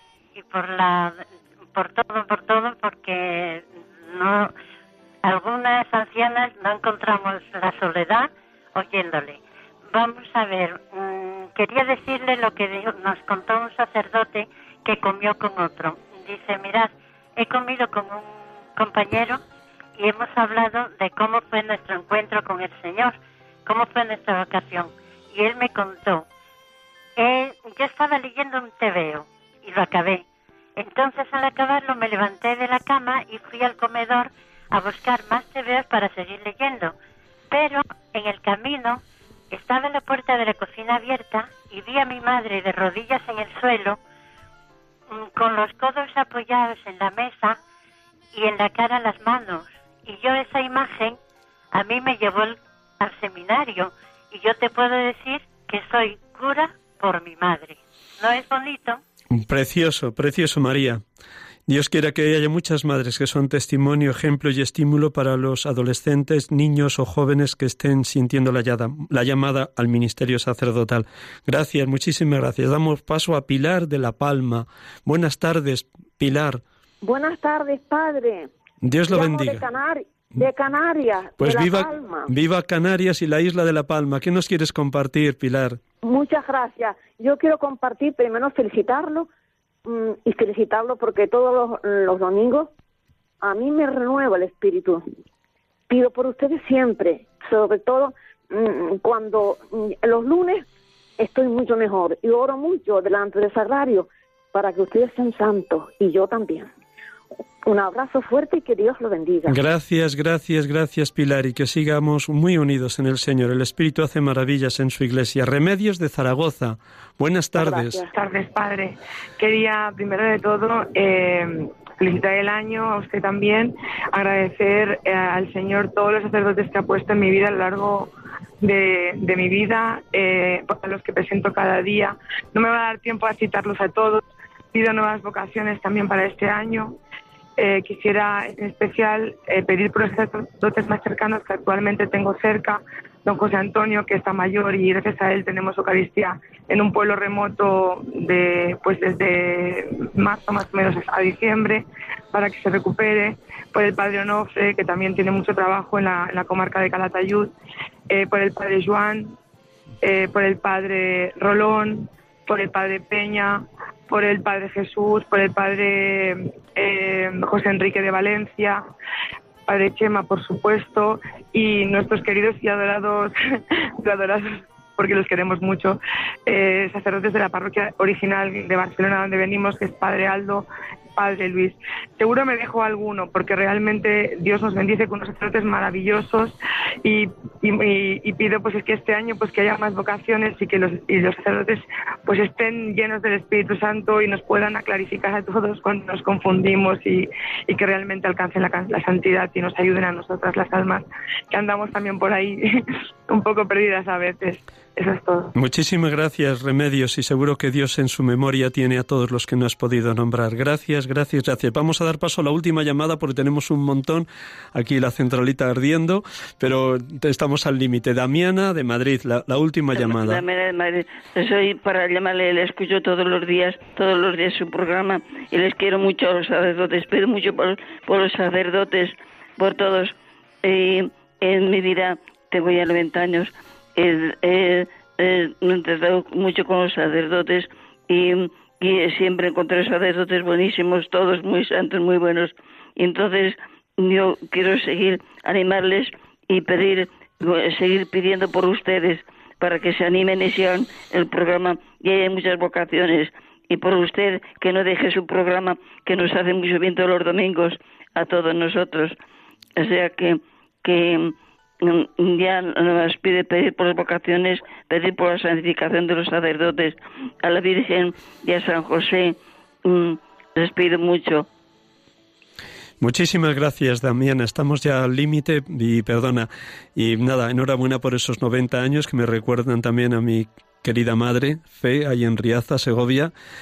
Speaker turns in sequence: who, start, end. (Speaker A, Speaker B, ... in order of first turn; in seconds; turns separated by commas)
Speaker A: 0.4-1.2, Speaker A: 1.7-4.5, Speaker A: 5.2-9.4, Speaker A: 9.9-19.4, Speaker A: 20.0-26.2, Speaker A: 27.2-30.2, Speaker A: 30.8-36.9, Speaker A: 37.5-44.0, Speaker A: 45.1-47.6, Speaker A: 48.3-51.2, Speaker A: 51.7-59.0, Speaker B: 59.3-61.0, Speaker B: 61.7-76.6, Speaker C: 77.0-78.5, Speaker B: 78.8-79.7, Speaker C: 79.1-82.3, Speaker B: 81.4-85.8, Speaker C: 86.0-89.3, Speaker C: 89.9-92.7, Speaker C: 93.4-95.0, Speaker C: 95.9-100.7, Speaker C: 101.2-106.7, Speaker C: 107.6-109.6, Speaker B: 109.5-118.1, Speaker C: 117.6-118.1, Speaker D: 118.1-137.0, Speaker D: 137.6-157.5, Speaker D: 158.1-159.4, Speaker D: 160.0-168.8, Speaker D: 169.7-173.3, Speaker D: 174.0-202.6, Speaker D: 203.3-205.6, Speaker B: 205.6-220.4, Speaker E: 219.9-259.2, Speaker E: 259.8-271.5, Speaker B: 273.0-283.3